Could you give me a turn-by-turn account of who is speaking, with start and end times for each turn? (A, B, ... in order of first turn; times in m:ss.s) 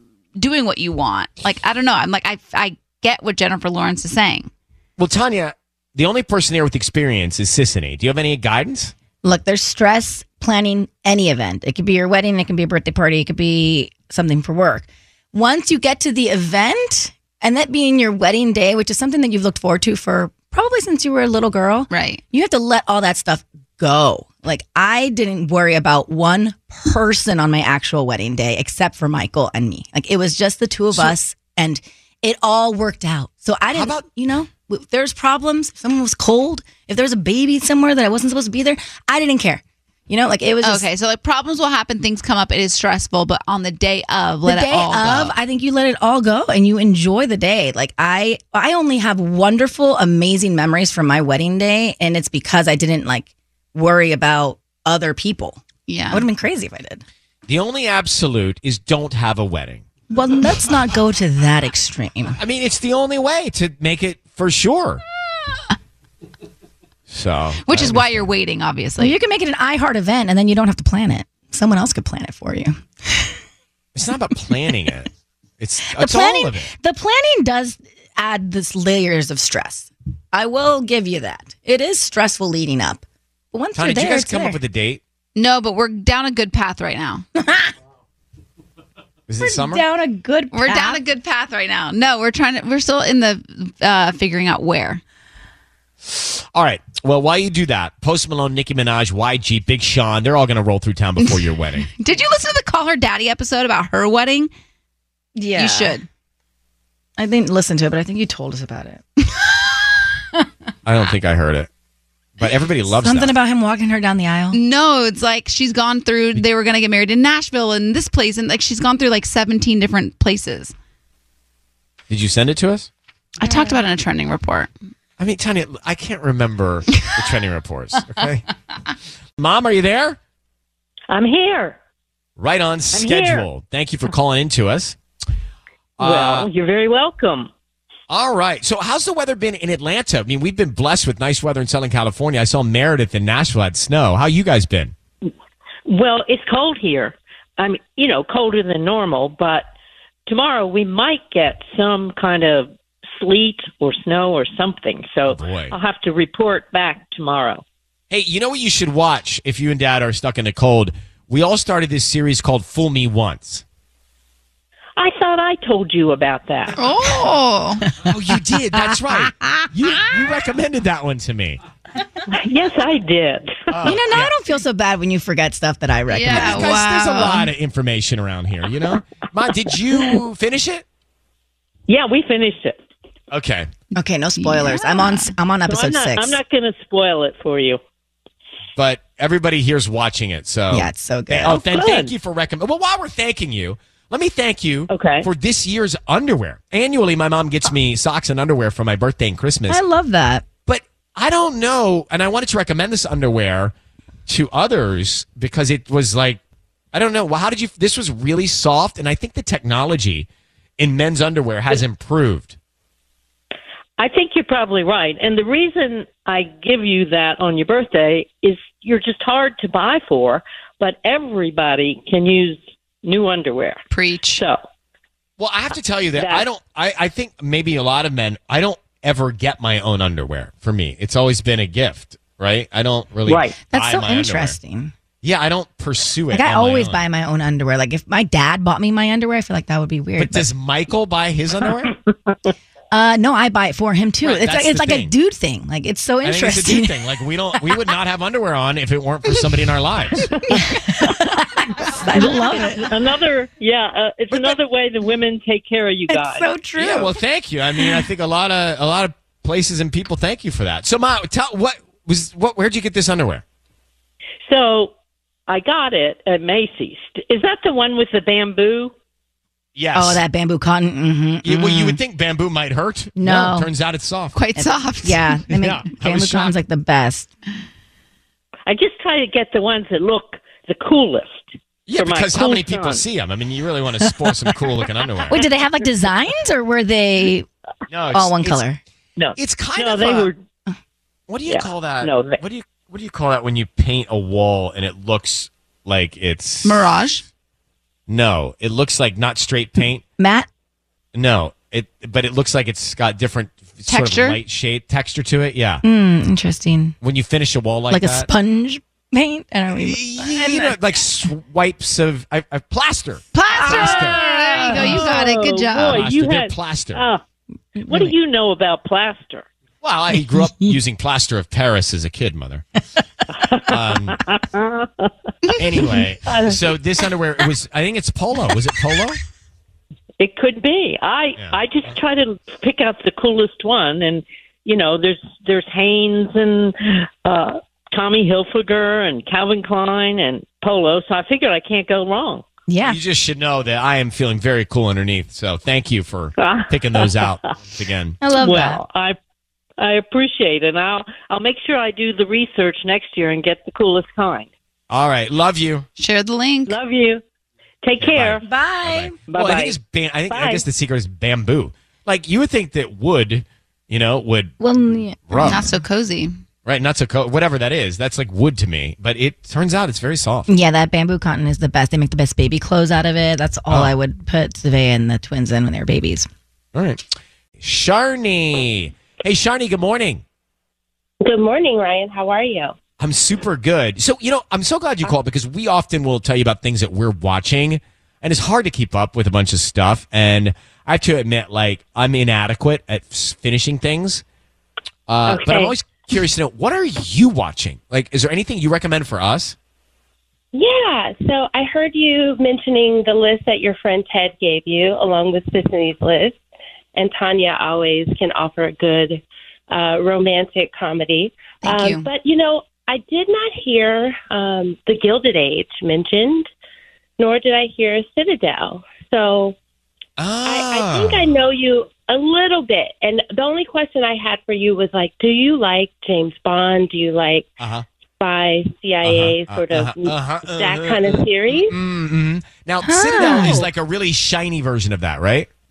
0:00.4-0:04.5 A
0:05.0-0:08.9 B
0:09.2-0:40.9 C
0:21.9-0:22.2 A
0:33.7-0:34.0 B
0:40.6-0:45.3 A
0:44.4-0:57.0 C
0:55.9-0:56.2 A
0:57.5-0:59.9 B
1:00.1-1:02.4 C
1:02.4-1:05.0 B
1:07.1-1:08.3 B
1:07.6-1:09.2 A
1:09.0-1:13.3 C
1:13.9-1:16.7 B
1:15.9-1:24.6 C
1:23.7-1:25.0 B
1:25.4-1:27.2 A
1:27.4-1:27.7 C
1:29.3-1:29.8 B
1:29.4-1:31.0 C
1:30.5-1:35.0 A
1:36.0-1:41.9 B
1:41.2-1:44.5 A
1:45.4-1:46.0 C
1:45.5-1:46.0 A
1:47.2-1:49.6 C
1:50.8-1:51.7 B
1:52.4-1:53.3 B
1:53.0-1:54.6 C
1:54.5-2:00.7 A
2:02.1-2:02.9 B
2:03.4-2:04.7 A
2:05.2-2:08.4 B
2:09.4-2:10.2 B
2:11.1-2:11.8 D
2:12.4-2:15.0 B
2:12.9-2:13.5 D
2:16.0-2:16.5 B
2:16.0-2:17.5 D
2:18.1-2:24.9 B
2:25.9-2:29.6 D
2:30.3-2:37.6 D
2:35.3-2:35.8 B
2:38.1-2:43.6 B
2:45.0-2:46.7 D
2:46.8-2:47.8 A
2:48.0-2:51.6 B
2:52.3-2:53.7 D
2:53.7-2:54.3 B
2:53.8-2:56.7 C
2:56.1-2:57.5 A
2:56.3-3:00.8 B
3:01.9-3:02.8 D
3:03.3-3:03.7 B
3:03.9-3:06.4 C
3:04.4-3:05.3 A
3:05.6-3:07.8 D
3:08.8-3:19.8 B
3:10.7-3:11.6 C
3:11.5-3:12.1 D
3:14.9-3:15.2 D
3:19.7-3:20.4 C
3:20.6-3:23.7 B
3:24.3-3:26.4 B
3:26.9-3:30.3 B
3:30.8-3:32.6 B
3:34.0-3:44.6 D
3:43.9-3:44.4 A
3:45.4-3:54.6 B
3:46.2-3:46.4 D
3:53.3-3:53.5 D
3:53.7-3:54.9 C
3:55.2-3:57.0 B
3:56.3-4:00.4 C
4:00.2-4:01.9 B
4:02.9-4:07.0 C
4:04.2-4:05.1 B
4:06.2-4:10.4 B
4:10.5-4:12.9 C
4:12.2-4:16.5 D
4:14.3-4:14.6 B
4:16.1-4:17.2 C
4:16.8-4:23.4 B
4:24.4-4:24.9 D
4:25.5-4:28.9 D
4:29.7-4:30.2 B
4:29.9-4:32.0 C
4:31.4-4:34.4 B
4:33.2-4:33.7 C
4:34.3-4:35.4 A
4:34.6-4:37.3 C
4:35.5-4:36.6 B
4:38.7-4:43.0 D
4:41.9-4:45.4 B
4:45.3-4:47.5 C
4:47.9-4:48.6 B
4:48.1-4:48.8 C
4:49.2-4:50.4 D
4:49.4-4:50.3 B
4:51.3-4:56.9 B
4:51.5-4:52.4 D
4:56.6-4:57.2 A
4:58.1-5:00.0 B
5:00.2-5:00.5 C
5:01.1-5:05.8 B
5:03.9-5:04.4 A
5:05.8-5:07.0 C
5:07.0-5:08.3 B
5:07.9-5:10.7 C
5:09.7-5:14.2 B
5:13.3-5:15.1 C
5:13.4-5:16.0 A
5:13.7-5:17.2 D
5:14.8-5:15.1 B
5:15.9-5:17.0 B
5:17.8-5:18.1 C
5:17.8-5:19.4 D
5:19.8-5:22.7 B
5:23.3-5:25.1 D
5:23.7-5:24.2 B
5:25.6-5:29.2 B
5:26.2-5:26.6 D
5:30.2-5:42.4 D
5:42.7-5:43.0 C
5:42.8-5:48.2 B
5:46.4-5:47.5 D
5:48.2-5:48.8 C
5:48.3-5:49.2 D
5:49.8-5:54.5 D
5:54.9-5:55.9 B
5:56.0-5:56.8 A
5:56.6-5:57.2 D
5:57.8-5:58.4 D
5:58.0-6:04.6 B
5:58.4-5:59.1 C
5:59.3-5:59.8 D
6:00.3-6:00.6 D
6:04.6-6:05.7 C
6:05.3-6:05.7 B
6:05.4-6:06.3 A
6:06.6-6:10.5 B
6:10.5-6:16.3 C
6:13.7-6:13.9 B
6:16.7-6:17.0 B
6:17.6-6:20.2 B
6:21.2-6:22.7 E
6:23.0-6:34.2 B
6:35.1-6:39.6 B
6:35.2-6:35.7 E
6:40.5-6:46.4 E
6:46.9-6:56.5 E
6:51.6-6:52.0 A
6:57.2-6:59.6 E
7:00.2-7:01.4 B
7:00.4-7:07.5 E
7:07.6-7:07.8 B
7:08.2-7:11.8 E
7:09.0-7:15.5 B
7:12.8-7:13.7 C